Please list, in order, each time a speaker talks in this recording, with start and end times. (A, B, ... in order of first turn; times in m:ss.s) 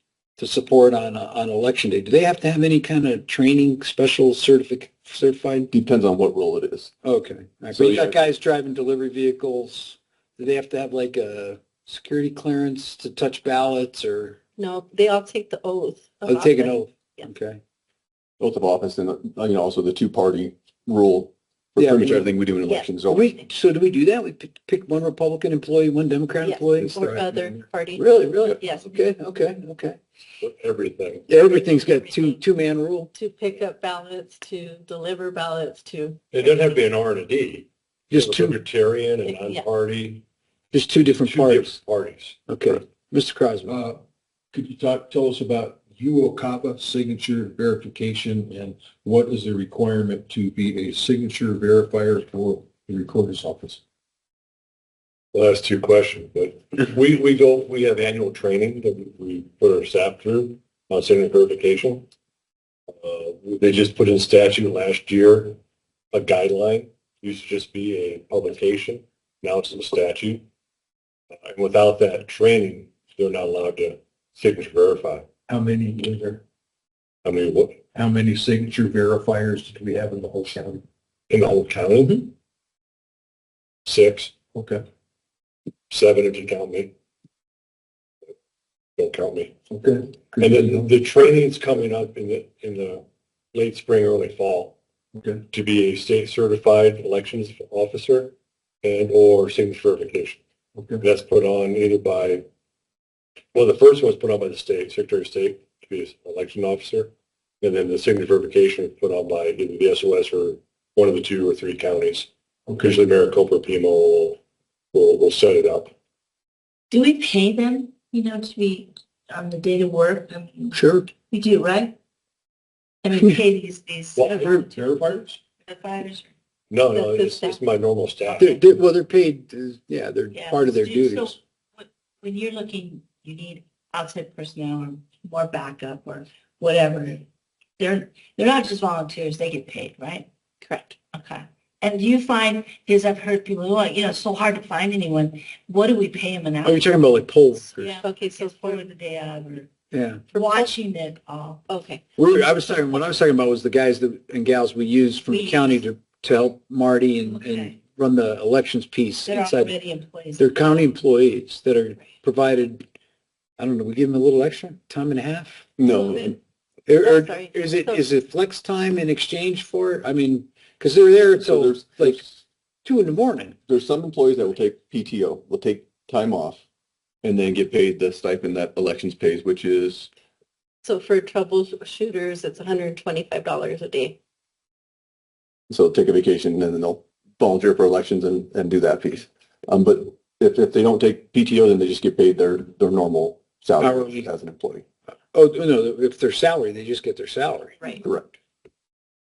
0:00.4-0:05.7 A
0:05.7-0:06.9 B
0:07.0-0:14.4 A
0:07.7-0:08.2 B
0:14.6-0:17.3 C
0:16.3-0:17.6 A
0:18.4-0:23.3 B
0:21.8-0:22.3 A
0:23.1-0:27.3 A
0:26.4-0:28.0 C
0:28.0-0:30.0 A
0:28.6-0:28.9 C
0:30.4-0:31.3 D
0:31.3-0:33.1 A
0:31.3-0:32.4 C
0:33.1-0:36.6 C
0:36.3-0:40.2 D
0:38.1-0:38.6 A
0:39.2-0:39.6 C
0:40.7-0:41.8 A
0:41.2-0:42.4 D
0:42.5-0:43.7 A
0:43.6-0:53.8 E
0:55.3-1:02.1 D
1:03.0-1:05.6 D
1:06.1-1:10.4 D
1:11.4-1:15.3 D
1:15.5-1:16.4 E
1:17.2-1:17.8 D
1:17.9-1:20.8 E
1:21.3-1:22.3 D
1:23.9-1:24.3 D
1:24.5-1:24.8 E
1:25.9-1:26.9 D
1:29.0-1:29.5 D
1:29.7-1:30.9 E
1:30.4-1:34.8 D
1:35.1-1:35.4 E
1:35.5-1:40.4 D
1:40.8-1:41.0 E
1:41.0-1:42.5 D
1:43.5-1:54.4 D
1:54.9-1:55.9 D
1:56.9-2:00.8 F
2:00.7-2:01.1 A
2:01.3-2:02.0 F
2:03.0-2:06.3 F
2:04.8-2:05.3 E
2:06.7-2:08.6 D
2:06.9-2:07.6 C
2:08.2-2:08.6 F
2:08.4-2:11.4 A
2:10.3-2:17.3 F
2:17.8-2:20.3 F
2:20.6-2:21.0 C
2:21.1-2:26.9 F
2:26.6-2:28.0 A
2:27.6-2:29.7 F
2:28.0-2:28.8 C
2:29.9-2:30.2 A
2:30.3-2:31.7 F
2:30.3-2:30.7 C
2:31.7-2:32.0 C
2:32.2-2:39.8 A
2:35.3-2:35.8 F
2:37.3-2:37.7 F
2:39.2-2:40.5 F
2:40.4-2:42.8 A
2:43.6-2:45.7 A
2:45.8-2:46.4 B
2:46.0-2:46.3 C
2:46.9-2:53.6 A
2:47.0-2:48.0 C
2:51.4-2:52.2 B
2:53.7-2:56.6 B
2:57.2-3:00.1 B
3:00.8-3:04.2 C
3:05.7-3:14.8 B
3:13.8-3:14.3 A
3:15.3-3:17.8 A
3:18.0-3:18.4 B